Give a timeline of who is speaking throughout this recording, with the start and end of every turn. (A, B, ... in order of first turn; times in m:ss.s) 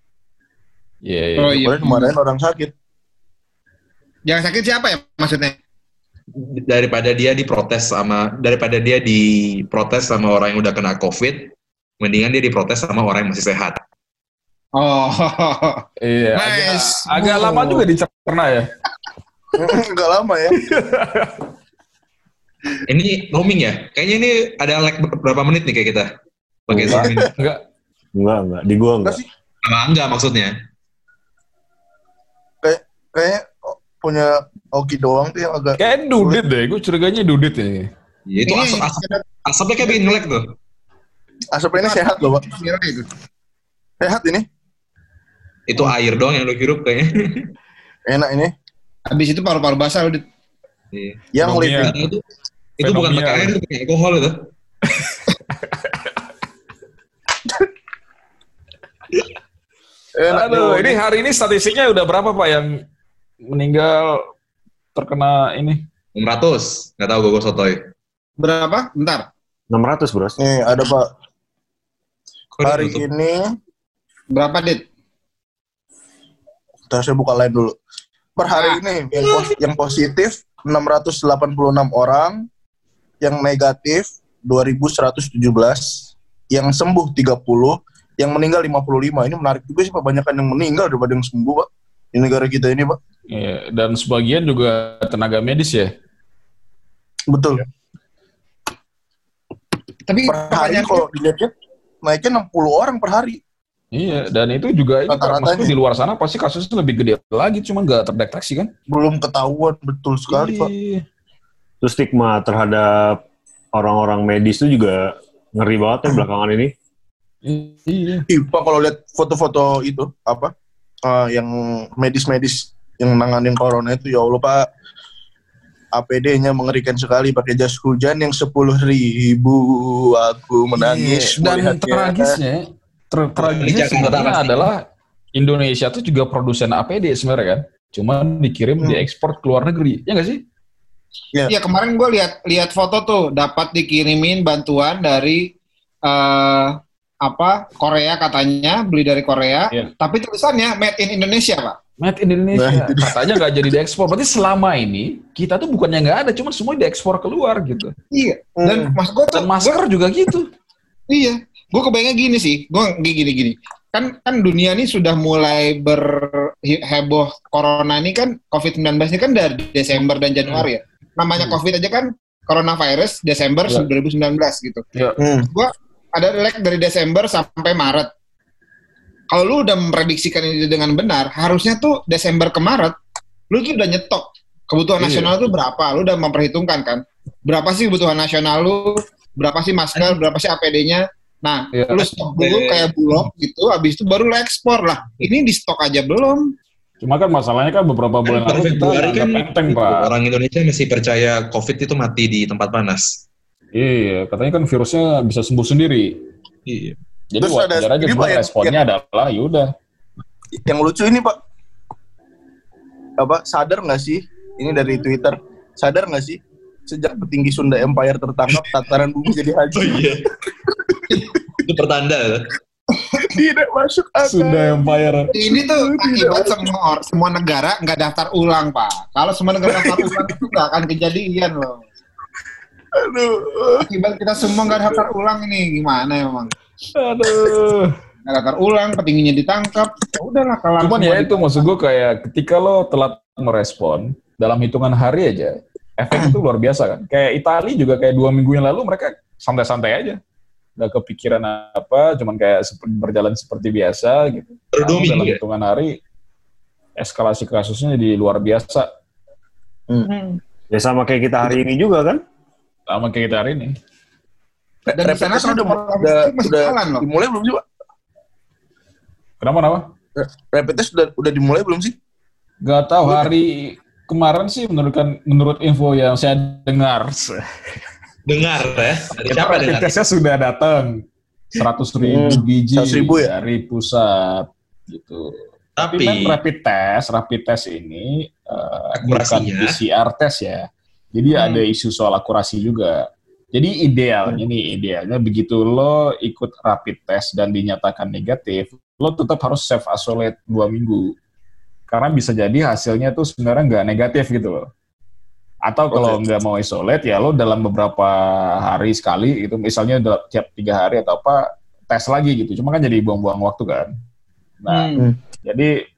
0:01.0-0:01.6 A
0:01.4-0:02.1 B
0:01.5-0:02.7 C
0:04.3-0:05.6 B
0:06.4-0:13.8 D
0:14.8-0:17.8 B
0:16.0-0:18.7 A
0:19.6-0:20.6 C
0:20.5-0:21.4 A
0:22.9-0:26.1 D
0:26.7-0:27.3 D
0:26.7-0:27.0 E
0:26.9-0:27.6 A
0:28.2-0:29.2 E
0:29.6-0:30.5 D
0:32.6-0:36.4 C
0:35.8-0:37.9 A
0:38.3-0:40.4 D
0:38.5-0:39.2 B
0:41.5-0:42.5 C
0:41.8-0:43.0 B
0:44.0-0:44.5 C
0:45.7-0:47.5 D
0:48.1-0:48.5 C
0:49.1-0:50.2 B
0:50.9-0:51.3 D
0:51.4-0:52.0 C
0:51.4-0:52.0 A
0:51.8-0:52.2 D
0:52.8-0:54.4 D
0:52.8-0:53.6 A
0:54.9-0:56.0 A
1:00.2-1:01.0 C
1:00.3-1:02.7 A
1:03.5-1:04.3 A
1:05.0-1:05.8 A
1:06.2-1:07.8 D
1:08.4-1:09.2 B
1:09.7-1:10.4 E
1:10.4-1:11.1 C
1:12.6-1:13.1 D
1:12.6-1:13.4 C
1:14.3-1:14.8 B
1:16.9-1:17.7 C
1:18.4-1:22.4 C
1:18.5-1:18.8 B
1:23.2-1:26.0 C
1:26.5-1:33.0 C
1:33.3-1:35.9 A
1:37.3-1:37.6 C
1:40.1-1:41.0 B
1:40.3-1:41.5 C
1:42.0-1:43.4 C
1:43.9-1:48.7 A
1:45.1-1:45.7 C
1:48.9-1:50.7 C
1:50.3-1:51.0 A
1:51.8-1:53.2 E
1:53.8-1:55.0 E
1:55.6-1:56.7 E
1:57.4-1:58.2 A
1:58.3-2:00.5 C
2:01.0-2:04.7 C
2:05.9-2:12.4 C
2:10.8-2:14.8 A
2:13.4-2:14.7 D
2:15.4-2:20.4 A
2:21.5-2:25.5 B
2:26.1-2:31.8 B
2:32.0-2:37.9 A
2:32.5-2:33.4 C
2:38.1-2:39.8 B
2:38.6-2:39.0 C
2:39.3-2:40.5 A
2:41.1-2:54.8 B
2:55.0-2:55.2 A
2:55.2-2:55.5 C
2:55.5-2:58.1 B
2:59.3-3:02.9 B
3:03.5-3:16.5 B
3:05.0-3:05.4 A
3:11.7-3:12.1 A
3:17.0-3:20.1 A
3:18.3-3:23.1 D
3:23.7-3:26.2 A
3:26.7-3:27.0 D
3:27.3-3:29.7 A
3:27.4-3:28.8 C
3:30.6-3:31.4 C
3:33.2-3:40.1 C
3:39.8-3:40.2 D
3:40.7-3:41.6 C
3:41.6-3:42.4 D
3:43.2-3:46.7 C
3:44.2-3:45.3 A
3:45.3-3:51.8 B
3:49.7-3:50.4 C
3:53.0-3:53.9 C
3:53.8-3:56.5 B
3:54.5-3:55.0 C
3:57.0-3:58.0 A
3:57.3-3:57.5 C
3:58.3-4:01.7 B
4:00.8-4:10.2 A
4:06.1-4:06.4 C
4:10.8-4:16.0 A
4:14.7-4:15.4 D
4:17.0-4:18.9 A
4:20.1-4:20.4 B
4:20.7-4:22.2 E
4:22.9-4:23.8 A
4:24.9-4:27.6 C
4:25.0-4:27.0 B
4:29.4-4:29.9 A
4:30.2-4:31.9 C
4:32.6-4:37.4 A
4:33.1-4:33.3 C
4:38.3-4:39.9 D
4:39.2-4:41.0 A
4:41.6-5:01.2 A
4:42.0-4:43.3 C
4:45.8-4:46.4 D
4:49.0-4:49.8 D
4:51.3-4:51.6 B
5:01.9-5:04.7 A
5:05.7-5:13.9 A
5:05.9-5:06.2 C
5:14.6-5:15.7 A
5:14.7-5:15.0 B